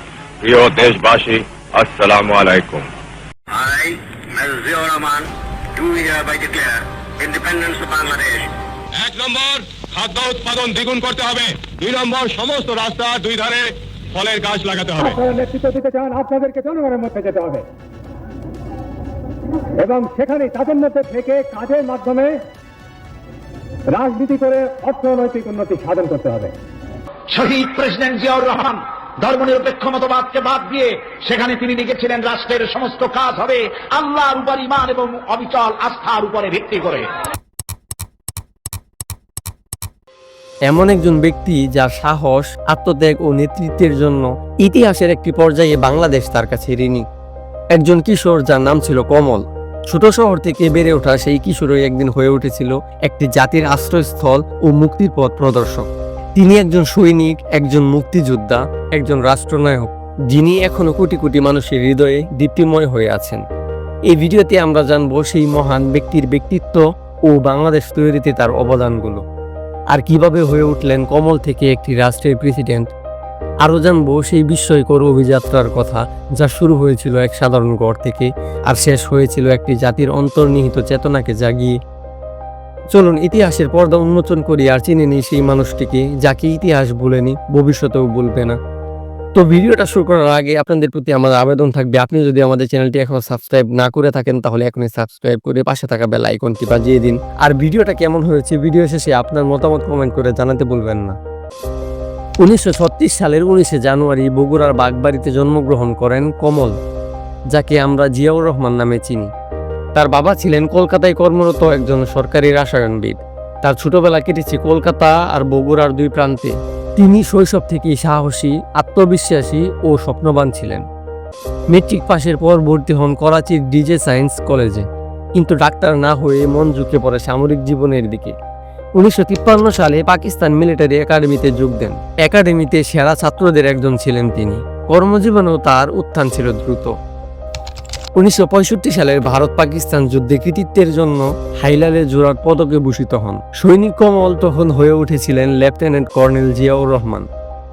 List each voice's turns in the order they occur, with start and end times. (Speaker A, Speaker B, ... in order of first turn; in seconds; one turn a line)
Speaker A: 0.4-2.9
Speaker B: 3.5-8.5
Speaker C: 8.9-15.2
Speaker D: 15.2-17.7
Speaker D: 19.8-22.4
Speaker D: 23.9-26.5
Speaker E: 27.3-37.1
Speaker F: 40.7-47.0
Speaker F: 47.8-55.9
Speaker F: 56.4-63.4
Speaker F: 64.1-69.2
Speaker F: 69.9-72.9
Speaker F: 73.6-81.8
Speaker F: 82.9-88.6
Speaker F: 89.4-101.2
Speaker F: 102.4-106.8
Speaker F: 107.5-109.3
Speaker F: 110.0-120.8
Speaker F: 121.7-128.3
Speaker F: 129.0-136.9
Speaker F: 138.2-147.3